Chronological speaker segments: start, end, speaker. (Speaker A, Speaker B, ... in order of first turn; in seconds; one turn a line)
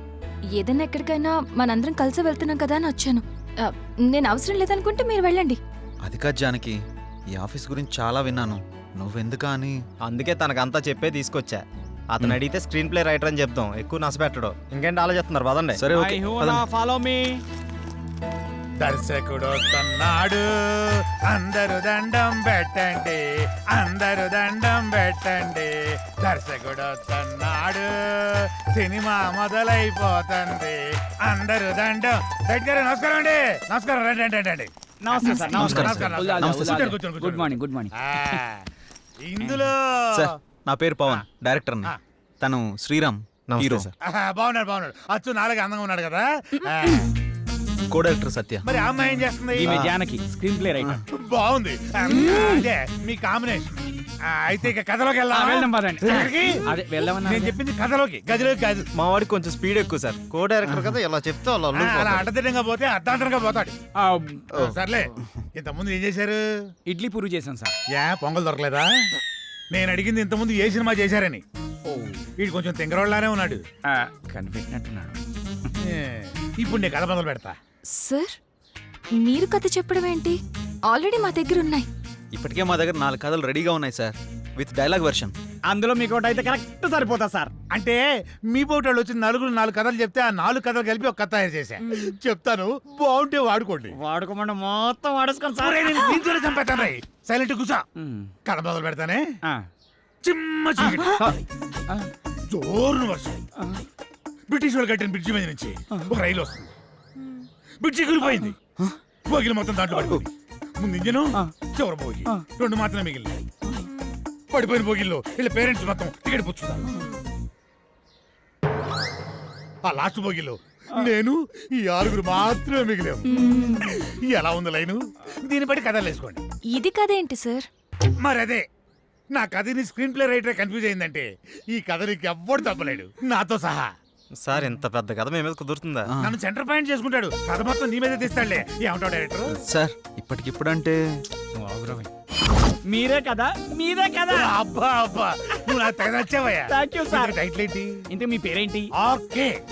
Speaker A: 0.5-5.6
Speaker B: 6.0-6.8
Speaker B: 7.3-9.8
Speaker C: 10.1-11.6
Speaker C: 12.1-15.8
Speaker B: 15.8-16.6
Speaker D: 15.9-17.4
Speaker E: 18.8-38.7
Speaker D: 35.0-38.4
Speaker B: 35.5-36.9
Speaker E: 39.2-40.3
Speaker D: 39.4-39.7
Speaker B: 40.1-43.9
Speaker C: 43.5-43.9
Speaker E: 44.0-47.1
Speaker B: 47.9-48.7
Speaker E: 48.6-49.8
Speaker D: 49.5-51.0
Speaker B: 49.6-50.0
Speaker E: 51.1-56.6
Speaker D: 55.3-57.6
Speaker E: 57.2-58.9
Speaker C: 59.0-62.2
Speaker E: 61.7-63.8
Speaker D: 64.0-64.5
Speaker E: 64.5-66.4
Speaker D: 66.9-67.8
Speaker E: 67.9-68.9
Speaker E: 69.7-71.4
Speaker D: 71.9-72.2
Speaker E: 72.4-73.6
Speaker D: 73.9-75.7
Speaker E: 75.8-77.5
Speaker A: 77.9-78.4
Speaker A: 79.2-80.4
Speaker A: 80.9-81.9
Speaker B: 82.3-85.3
Speaker D: 85.7-87.5
Speaker E: 87.7-94.0
Speaker D: 93.9-96.8
Speaker E: 95.6-97.8
Speaker D: 98.0-98.3
Speaker E: 98.5-99.3
Speaker E: 100.2-101.2
Speaker D: 100.8-102.1
Speaker E: 102.5-103.4
Speaker D: 103.6-103.9
Speaker E: 104.5-106.7
Speaker E: 107.8-108.5
Speaker D: 108.2-108.5
Speaker E: 109.3-113.3
Speaker B: 110.0-110.2
Speaker E: 114.5-116.8
Speaker E: 119.8-126.4
Speaker A: 123.3-123.8
Speaker A: 126.7-127.7
Speaker E: 128.2-128.7
Speaker E: 129.3-133.9
Speaker C: 134.4-136.1
Speaker B: 136.1-136.3
Speaker E: 136.2-139.6
Speaker B: 139.5-141.0
Speaker D: 141.6-142.1
Speaker D: 142.8-144.5
Speaker E: 144.3-147.9
Speaker D: 145.6-146.0
Speaker D: 146.7-147.4
Speaker D: 148.1-148.9
Speaker E: 149.0-149.6